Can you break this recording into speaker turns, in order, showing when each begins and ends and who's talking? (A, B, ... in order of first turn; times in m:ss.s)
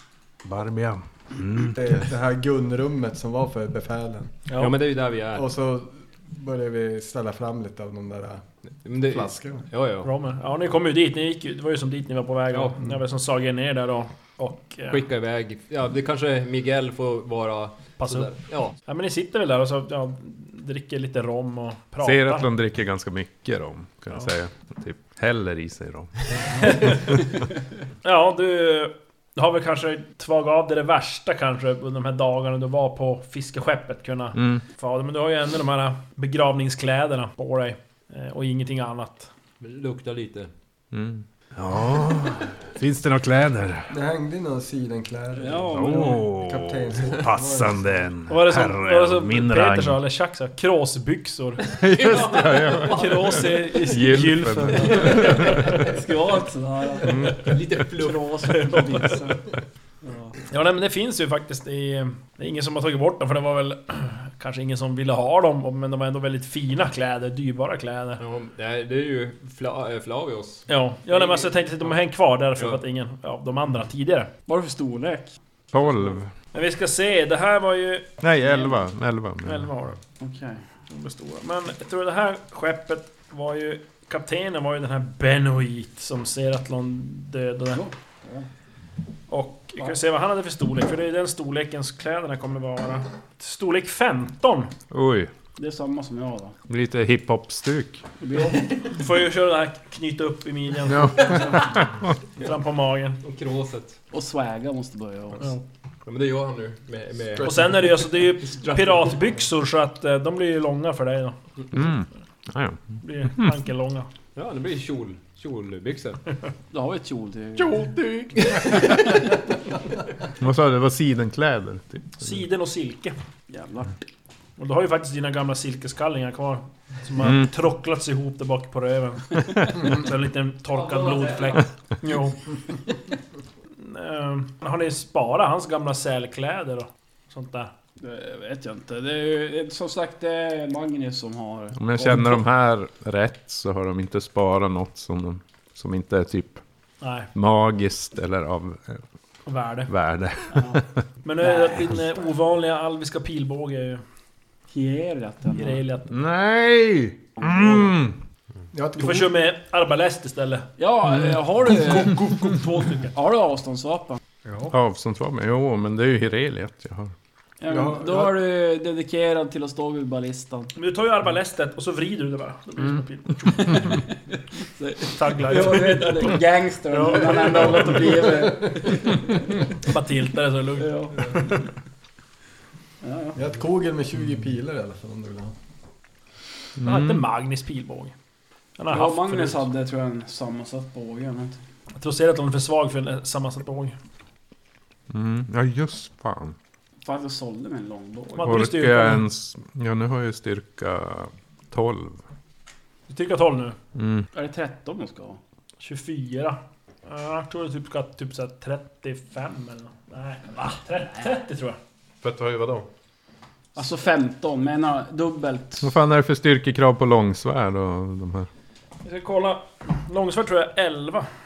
0:00.4-0:01.8 A
0:01.6-0:04.4 B
0:04.5-0:04.7 C
0:04.6-0:05.5 D
0:05.3-0:08.4 B
0:08.8-0:10.1 D
0:09.0-0:09.6 B
0:10.0-0:15.0 C
0:12.5-0:12.8 D
0:14.9-0:18.7 D
0:18.0-0:22.5 C
0:22.0-0:27.0 A
0:26.6-0:27.1 C
0:28.0-0:39.3 C
0:34.3-0:34.6 A
0:39.6-0:40.5 D
0:40.9-0:43.9 A
0:43.9-0:47.9 B
0:45.3-0:46.2 E
0:45.7-0:50.0 A
0:48.3-0:51.7 C
0:51.7-0:55.6 A
0:51.8-0:53.5 D
0:52.8-0:55.7 C
0:54.8-0:59.5 E
0:57.0-0:57.4 A
0:57.2-0:58.8 D
1:00.5-1:08.2 C
1:08.2-1:12.0 D
1:10.7-1:14.3 C
1:12.6-1:12.8 D
1:14.5-1:15.4 E
1:15.7-1:16.3 A
1:16.5-1:18.1 C
1:18.2-1:19.7 A
1:19.4-1:20.0 C
1:20.2-1:20.6 E
1:20.9-1:27.8 C
1:27.7-1:28.5 E
1:29.3-1:34.7 C
1:34.9-1:35.3 A
1:35.6-1:36.6 E
1:36.7-1:38.0 A
1:38.2-1:38.7 E
1:38.9-1:41.5 C
1:40.9-1:41.9 A
1:42.4-1:43.2 C
1:43.2-1:44.0 D
1:44.1-1:45.5 E
1:46.0-1:49.2 D
1:47.3-1:47.8 F
1:47.4-1:51.4 C
1:51.7-1:53.5 A
1:53.0-1:54.1 C
1:54.4-1:56.2 D
1:56.7-1:57.9 E
1:57.6-1:58.5 F
1:58.4-1:59.1 D
2:00.4-2:02.3 A
2:02.2-2:03.1 C
2:03.5-2:04.0 E
2:04.6-2:12.4 C
2:07.2-2:07.5 A
2:10.8-2:11.6 D
2:13.8-2:17.7 C
2:18.0-2:22.4 E
2:21.8-2:26.6 A
2:27.0-2:27.3 C
2:27.3-2:29.0 A
2:29.4-2:29.9 C
2:29.9-2:30.9 A
2:30.5-2:30.8 E
2:31.2-2:34.0 C
2:31.4-2:32.0 E
2:34.7-2:35.8 E
2:35.5-2:36.2 C
2:36.1-2:38.2 A
2:37.4-2:37.9 E
2:38.7-2:39.3 B
2:39.0-2:43.1 C
2:40.8-2:44.2 E
2:44.4-2:44.7 C
2:44.7-2:47.1 A
2:47.6-2:50.7 E
2:47.7-2:48.3 B
2:50.7-2:54.0 C
2:53.7-2:59.5 E
2:55.1-2:58.5 C
2:59.8-3:01.6 C
3:00.8-3:01.5 E
3:03.0-3:03.4 E
3:03.3-3:05.5 B
3:06.8-3:07.2 A
3:06.8-3:08.1 C
3:08.8-3:09.7 C
3:08.9-3:11.6 E
3:11.9-3:14.0 C
3:15.1-3:16.6 A
3:17.0-3:18.6 E
3:18.3-3:19.2 C
3:18.4-3:22.2 A
3:23.1-3:23.8 C
3:24.0-3:24.2 A
3:24.3-3:25.4 E
3:25.8-3:31.8 C
3:32.2-3:32.9 F
3:33.7-3:35.9 E
3:35.8-3:38.5 A
3:39.0-3:41.3 C